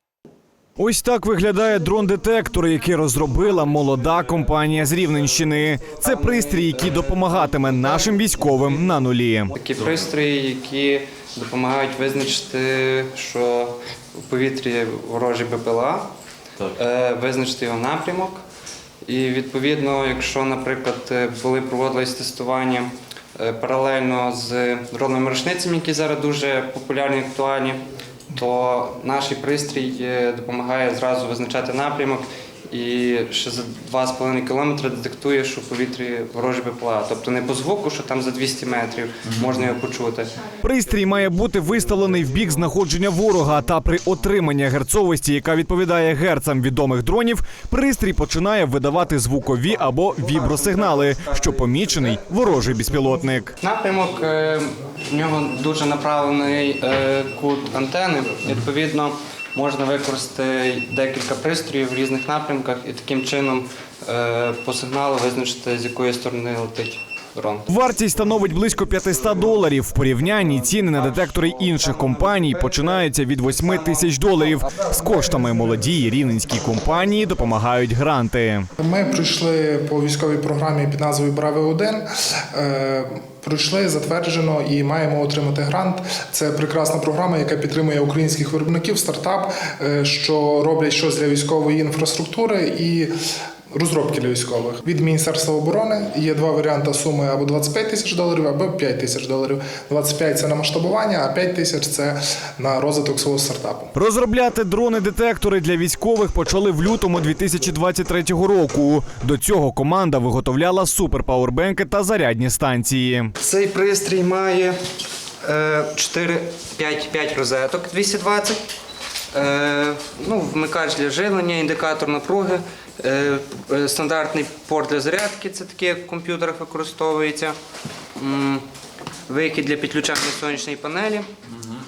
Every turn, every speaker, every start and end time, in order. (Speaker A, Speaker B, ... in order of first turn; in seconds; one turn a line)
Speaker A: 0.8-9.5
Speaker B: 6.0-6.8
Speaker B: 9.5-16.1
Speaker B: 16.7-18.4
Speaker B: 19.1-27.8
Speaker B: 28.3-40.3
Speaker A: 40.6-53.5
Speaker B: 53.6-67.7
Speaker A: 67.7-78.7
Speaker B: 70.8-72.8
Speaker C: 78.8-93.1
Speaker C: 93.7-103.9
Speaker A: 103.9-113.3
Speaker B: 113.4-114.8
Speaker B: 115.4-118.6
Speaker B: 119.3-127.5
Speaker B: 128.2-128.6
Speaker B: 129.3-131.3